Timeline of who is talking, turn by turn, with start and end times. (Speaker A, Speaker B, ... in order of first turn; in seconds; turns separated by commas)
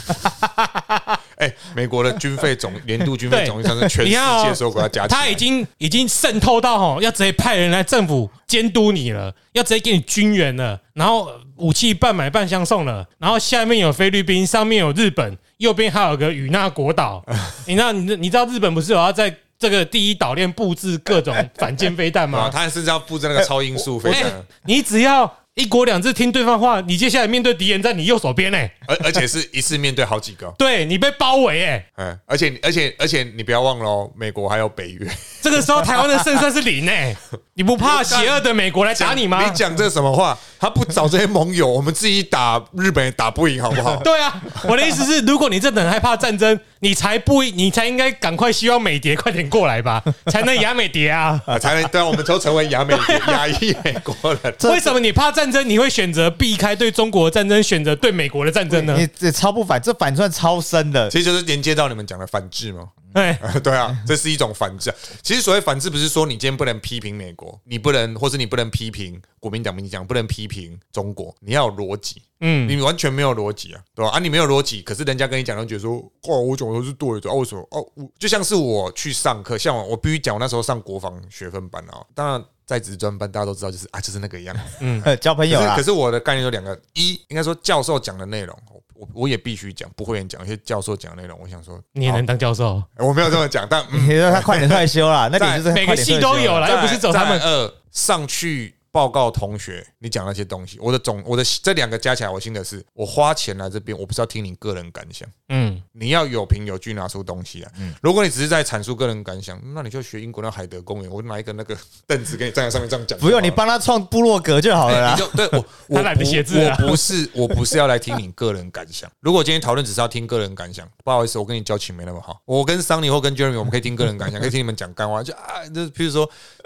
Speaker A: 0.3-1.0, Speaker B: 1.4-5.4, Speaker C: 3.3-22.6, Speaker B: 22.3-24.4, Speaker A: 24.0-24.3, Speaker C: 24.1-28.8, Speaker B: 28.9-30.6, Speaker C: 30.6-31.9, Speaker B: 32.0-35.7, Speaker C: 35.4-39.6, Speaker B: 37.8-38.4, Speaker B: 38.9-44.1, Speaker C: 44.0-51.5, Speaker B: 51.5-54.6, Speaker C: 52.9-53.4, Speaker A: 54.6-55.0, Speaker C: 54.6-59.1, Speaker A: 58.7-61.1, Speaker B: 61.1-92.2, Speaker C: 63.1-63.4, Speaker C: 72.4-72.8, Speaker C: 84.8-85.1, Speaker A: 85.0-85.8, Speaker C: 92.0-92.9, Speaker B: 93.0-95.7, Speaker A: 93.9-96.7, Speaker C: 95.7-97.5, Speaker B: 96.6-105.3, Speaker C: 105.5-105.8, Speaker B: 106.0-113.6, Speaker A: 113.2-115.3, Speaker B: 114.8-126.3, Speaker C: 115.9-117.1